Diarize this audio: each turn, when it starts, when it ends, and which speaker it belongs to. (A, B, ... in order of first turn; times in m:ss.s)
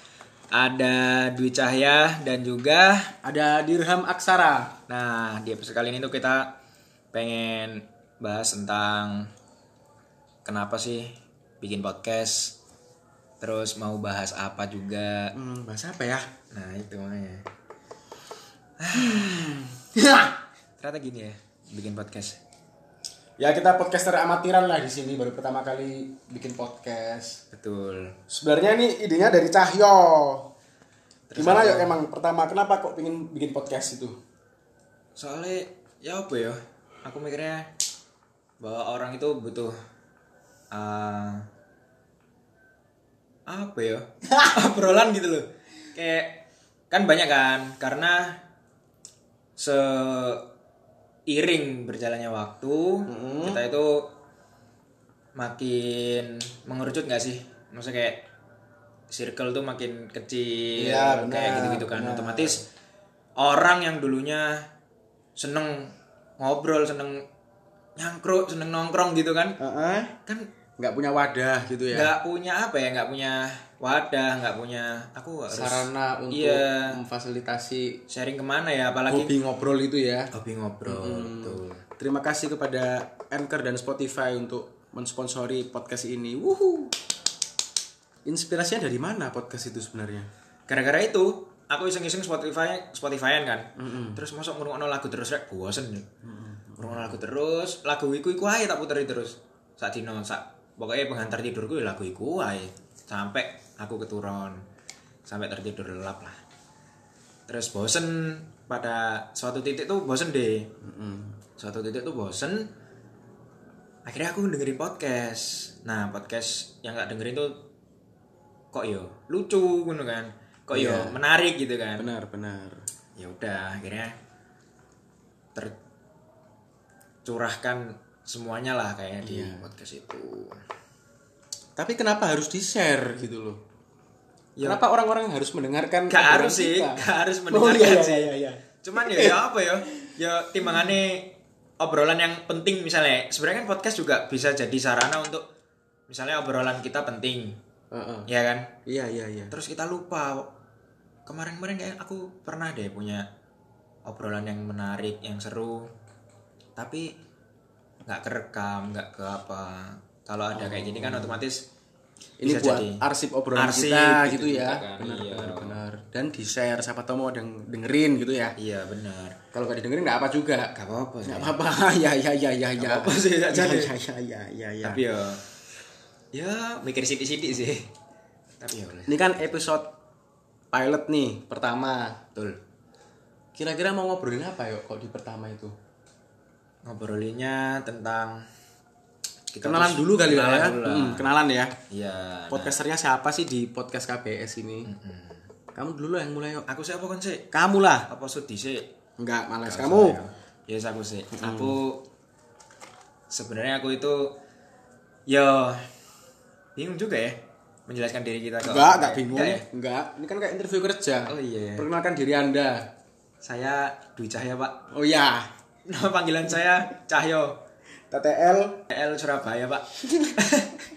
0:00.5-0:03.1 A
0:03.2-0:04.8 B
0:04.9-0:06.5 A
0:07.1-0:09.3 A
0:10.4-0:12.6 A
0:13.4-0:15.3 A
0:15.4-0:16.3 B
0:16.5-0:17.4 A
0:18.8-0:19.6 A
0:19.0-0:20.4 B
0:20.8-0:22.4 A
0:23.4-0:27.4 B
0:27.5-0:28.2 A
0:28.3-0:30.5 B
0:31.3-0:32.0 A
0:31.4-0:34.2 B
0:35.2-0:37.7 A
0:38.6-0:39.8 A
0:40.7-0:41.4 A
0:43.5-0:48.4 A
0:49.6-0:50.4 A
0:51.3-0:54.1 A
0:53.1-0:53.6 B
0:55.4-0:58.3 A
0:59.1-1:02.6 A
1:00.8-1:02.6 B
1:03.4-1:04.7 A
1:05.4-1:07.2 A
1:08.0-1:09.6 A
1:09.6-1:10.1 B
1:10.8-1:12.1 B
1:11.9-1:17.0 A
1:15.5-1:18.0 B
1:18.1-1:19.4 A
1:19.1-1:20.3 B
1:20.3-1:21.8 A
1:20.9-1:27.0 B
1:28.2-1:30.3 B
1:30.7-1:36.1 A
1:33.8-1:34.2 B
1:36.2-1:37.2 B
1:36.8-1:44.6 A
1:45.3-1:46.4 A
1:47.5-1:50.7 A
1:50.8-1:51.4 B
1:51.6-1:52.7 A
1:54.1-1:57.6 A
1:58.7-2:02.1 A
2:00.7-2:01.2 B
2:02.0-2:02.9 B
2:03.2-2:04.1 A
2:07.2-2:10.6 A
2:09.2-2:09.7 B
2:11.8-2:13.6 B
2:14.6-2:14.8 A
2:14.6-2:19.4 B
2:16.1-2:25.4 A
2:26.1-2:27.6 A
2:27.9-2:28.3 B
2:28.3-2:28.7 A
2:28.9-2:29.6 B
2:29.5-2:30.5 A
2:31.3-2:33.2 A
2:34.1-2:35.9 A
2:36.8-2:37.1 A
2:38.1-2:41.6 A
2:40.5-2:41.4 B
2:42.4-2:48.6 B
2:42.4-2:43.0 A
2:43.5-2:45.8 A
2:48.6-2:49.4 A
2:49.5-2:50.7 B
2:50.7-2:51.6 A
2:51.3-2:55.0 B
2:52.8-2:53.9 A
2:54.8-2:55.4 A
2:56.3-2:57.9 A
2:58.6-2:59.3 A
2:59.1-2:59.9 B
3:00.7-3:02.2 B
3:03.6-3:05.7 B
3:06.9-3:08.4 A
3:09.5-3:11.3 A
3:09.6-3:11.8 B
3:11.9-3:12.8 A
3:12.5-3:14.9 B
3:14.9-3:15.5 A
3:15.8-3:16.7 B
3:16.7-3:17.5 A
3:17.5-3:18.1 B
3:18.1-3:18.8 A
3:19.2-3:20.2 B
3:19.7-3:22.0 A
3:21.3-3:21.8 B
3:23.3-3:24.3 A
3:25.3-3:25.9 A
3:26.8-3:29.6 A
3:28.6-3:32.9 B
3:31.3-3:31.9 A
3:33.4-3:34.8 A
3:34.9-3:35.5 B
3:35.9-3:37.6 A
3:38.1-3:38.8 B
3:38.9-3:40.7 A